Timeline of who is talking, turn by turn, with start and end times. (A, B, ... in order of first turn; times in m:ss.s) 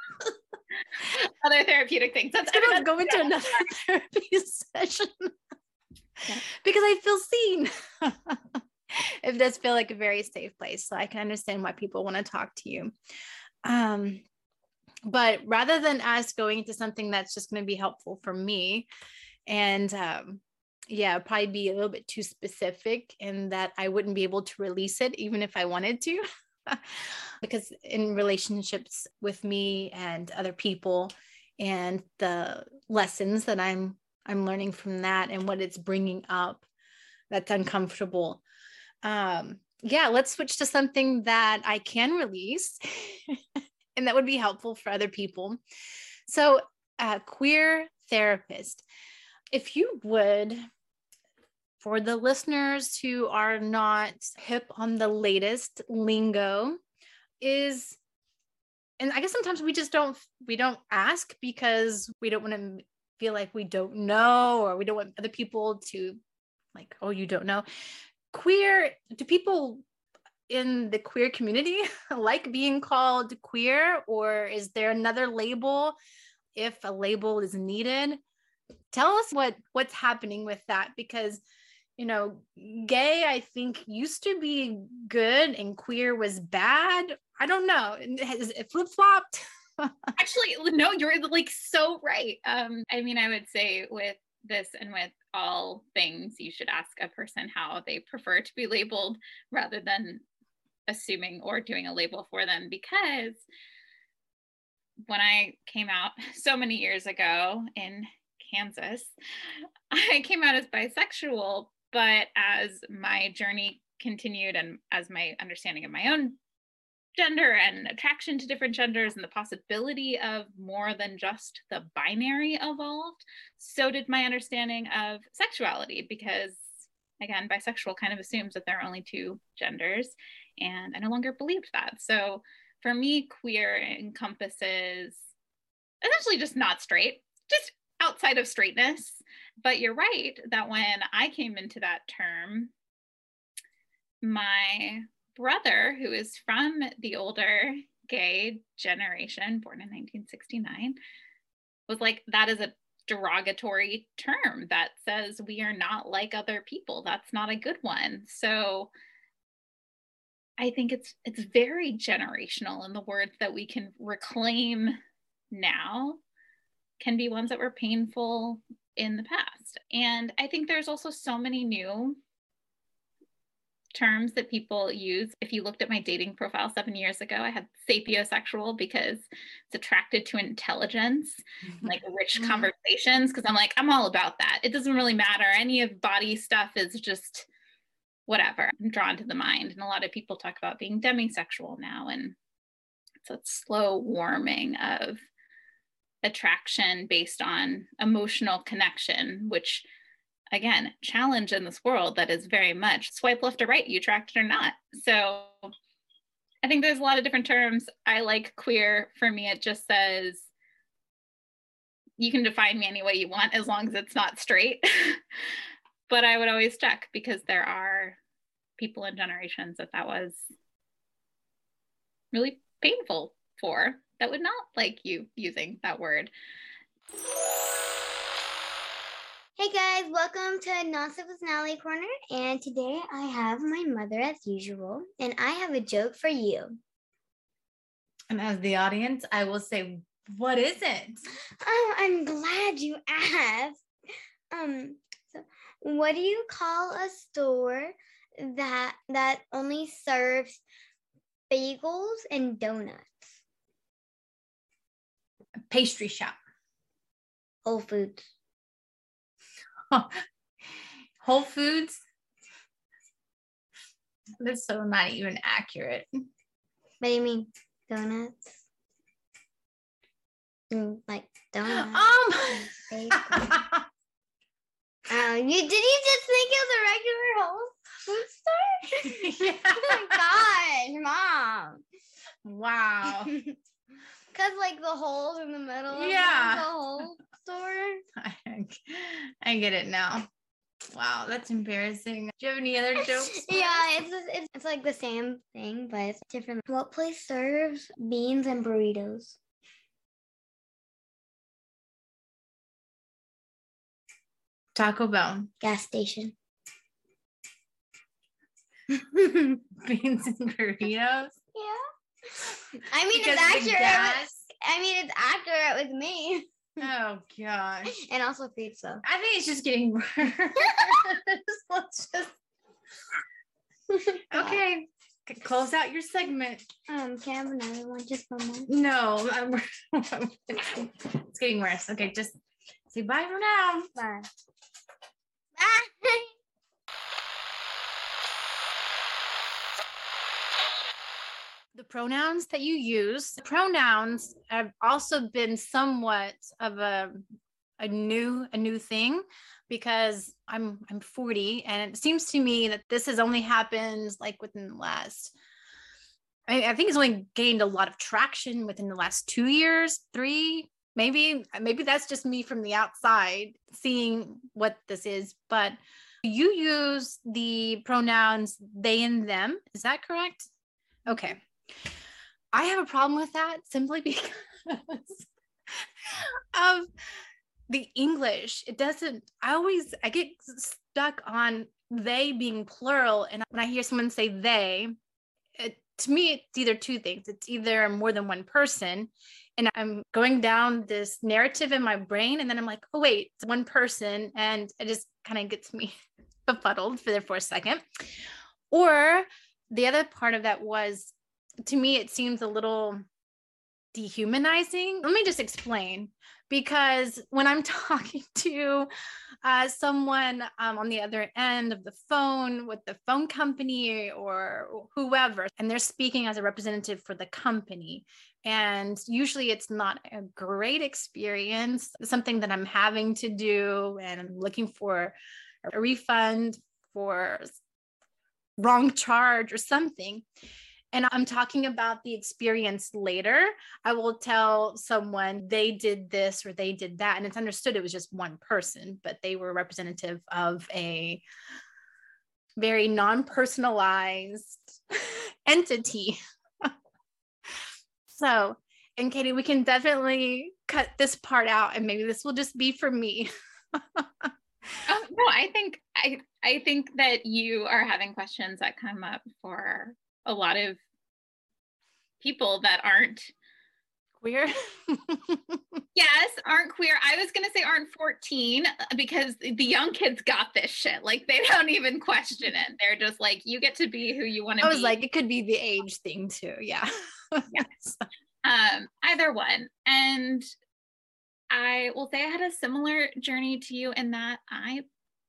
0:01.0-0:03.7 A
0:02.4-0:05.3 B
0:06.5-0:12.9 B
0:13.6-0:14.2 B
0:15.0-0:18.9 B
0:19.5-0:36.6 B
0:37.3-0:38.4 B
0:39.0-0:45.6 B
0:46.3-0:48.8 B
0:49.5-0:50.6 B
0:51.8-0:56.8 B
0:57.4-0:58.0 B
0:59.0-1:06.2 B
1:06.7-1:07.6 B
1:08.3-1:09.8 B
1:10.5-1:16.0 B
1:16.5-1:18.2 B
1:18.9-1:21.4 B
1:22.0-1:30.1 B
1:30.2-1:40.2 A
1:40.9-1:43.4 A
1:45.1-1:49.1 A
1:49.9-1:56.4 A
1:57.2-2:15.3 A
2:16.0-2:22.7 A
2:24.2-2:31.0 A
2:31.9-2:38.9 A
2:40.6-2:45.0 A
2:45.5-2:46.2 A
2:47.0-2:52.2 A
2:53.9-3:07.5 A
3:01.8-3:02.7 B
3:08.3-3:12.4 A
3:13.2-3:15.2 A
3:16.2-3:19.8 A
3:20.5-3:25.7 A
3:26.6-3:30.5 A
3:32.2-3:35.2 A
3:36.1-3:38.2 A
3:38.8-3:40.4 A
3:42.3-3:46.3 A
3:49.6-3:56.8 C
3:58.3-4:01.2 B
4:01.6-4:03.8 C
4:04.5-4:10.6 C
4:11.5-4:13.3 C
4:15.7-4:16.3 B
4:17.6-4:18.2 C
4:19.9-4:20.2 B
4:21.2-4:21.9 B
4:24.4-4:26.1 B
4:27.0-4:28.6 C
4:30.7-4:33.6 C
4:31.6-4:33.8 B
4:35.1-4:41.8 C
4:39.0-4:40.2 B
4:42.4-4:43.3 B
4:43.0-4:43.5 C
4:44.3-4:48.0 C
4:45.9-4:47.0 B
4:48.2-4:50.3 B
4:50.9-4:53.8 B
4:53.0-4:59.4 C
5:04.7-5:05.5 B
5:05.6-5:06.3 C
5:09.6-5:11.4 B
5:11.5-5:11.8 C
5:12.9-5:16.4 C
5:13.1-5:14.4 B
5:16.8-5:17.9 B
5:17.9-5:19.0 C
5:19.0-5:22.3 B
5:20.7-5:21.0 C
5:23.9-5:24.6 C
5:24.3-5:26.6 B
5:26.9-5:28.7 C
5:28.7-5:32.4 B
5:32.9-5:33.9 B
5:34.0-5:34.3 C
5:35.6-5:36.3 C
5:41.7-5:47.2 B
5:47.8-5:55.3 B
5:56.5-6:10.5 B
6:11.0-6:11.4 B
6:12.5-6:16.9 B
6:17.7-6:24.9 B
6:25.6-6:35.9 B
6:36.4-6:37.8 B
6:38.7-6:41.1 B
6:41.6-6:43.0 B
6:43.9-6:48.9 B
6:49.4-7:05.1 B
7:05.6-7:07.6 B
7:08.6-7:10.2 B
7:10.9-7:21.2 B
7:22.6-7:26.7 B
7:28.1-7:34.3 B
7:34.8-7:40.8 A
7:42.2-7:43.3 A
7:44.2-7:45.8 B
7:45.9-7:55.0 A
7:54.6-7:58.0 B
7:58.4-8:00.5 A
8:01.5-8:04.8 A